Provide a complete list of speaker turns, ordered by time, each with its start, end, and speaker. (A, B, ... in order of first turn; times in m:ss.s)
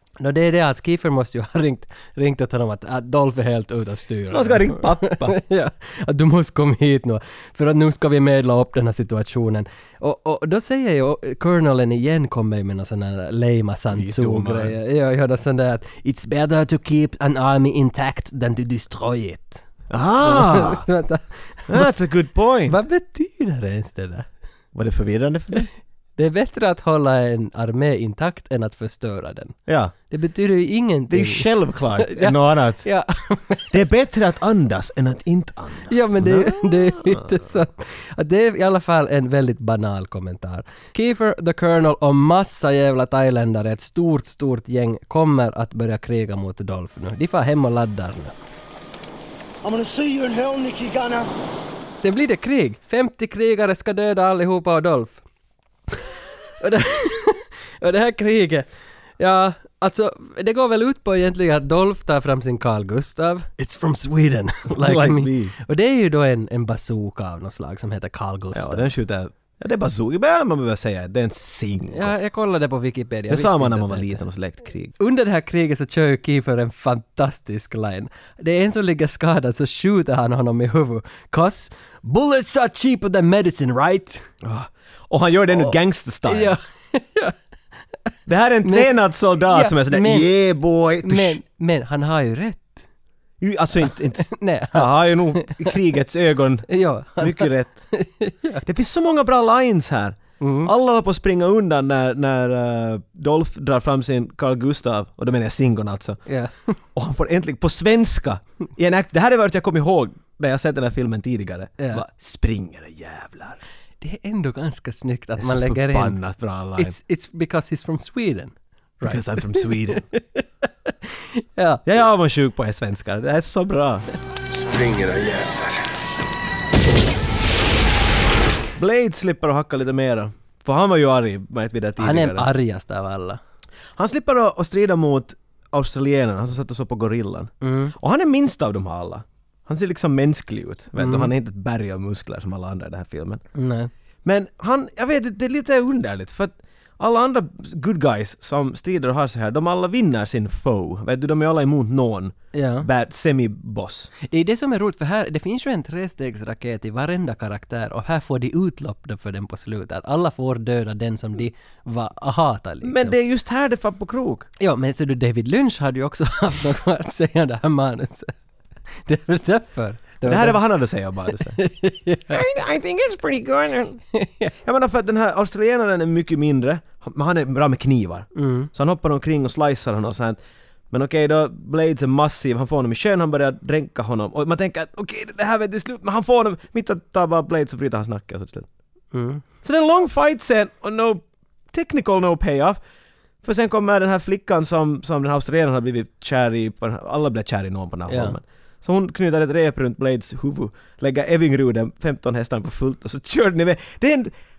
0:00.2-0:19.7 A
0:04.3-0:05.4 B
0:13.9-0:14.7 B
0:19.9-0:20.8 B
0:20.2-0:21.9 A
0:21.7-0:22.8 B
0:22.7-0:24.3 A
0:24.7-0:25.7 B
0:26.2-0:33.8 A
0:29.7-0:29.9 B
0:31.1-0:32.8 B
0:33.7-0:37.4 B
0:35.9-0:48.3 A
0:49.6-0:51.3 C
0:52.0-0:55.2 A
0:56.6-1:08.9 A
1:04.7-1:05.5 B
1:08.5-1:12.1 B
1:11.9-1:14.2 A
1:13.3-1:14.9 B
1:15.0-1:24.2 A
1:24.4-1:26.6 B
1:25.5-1:27.3 A
1:28.3-1:31.4 B
1:28.6-1:30.3 A
1:31.0-1:32.8 A
1:33.4-1:37.9 B
1:33.8-1:35.7 A
1:36.7-1:38.6 A
1:38.6-1:46.2 B
1:40.4-1:40.7 A
1:46.2-1:46.8 A
1:46.9-1:53.6 B
1:51.8-1:52.0 A
1:54.0-1:56.2 A
1:55.4-1:56.9 B
1:56.8-2:01.8 A
1:59.0-2:00.0 B
2:01.8-2:04.0 B
2:04.5-2:05.9 C
2:08.8-2:12.5 B
2:12.0-2:13.4 A
2:14.0-2:23.4 B
2:17.6-2:17.9 A
2:21.0-2:21.3 A
2:23.5-2:23.9 A
2:24.2-2:34.1 B
2:32.5-2:32.9 A
2:34.2-2:43.2 A
2:42.8-2:44.5 B
2:44.6-2:48.3 A
2:48.9-2:50.6 A
2:50.2-2:51.6 B
2:51.3-2:52.4 A
2:52.3-2:54.0 B
2:54.1-2:54.5 A
2:54.6-3:00.4 B
2:58.3-2:58.7 A
3:00.9-3:08.7 B
3:09.1-3:09.4 A
3:09.6-3:12.8 B
3:13.4-3:24.3 B
3:18.1-3:18.4 A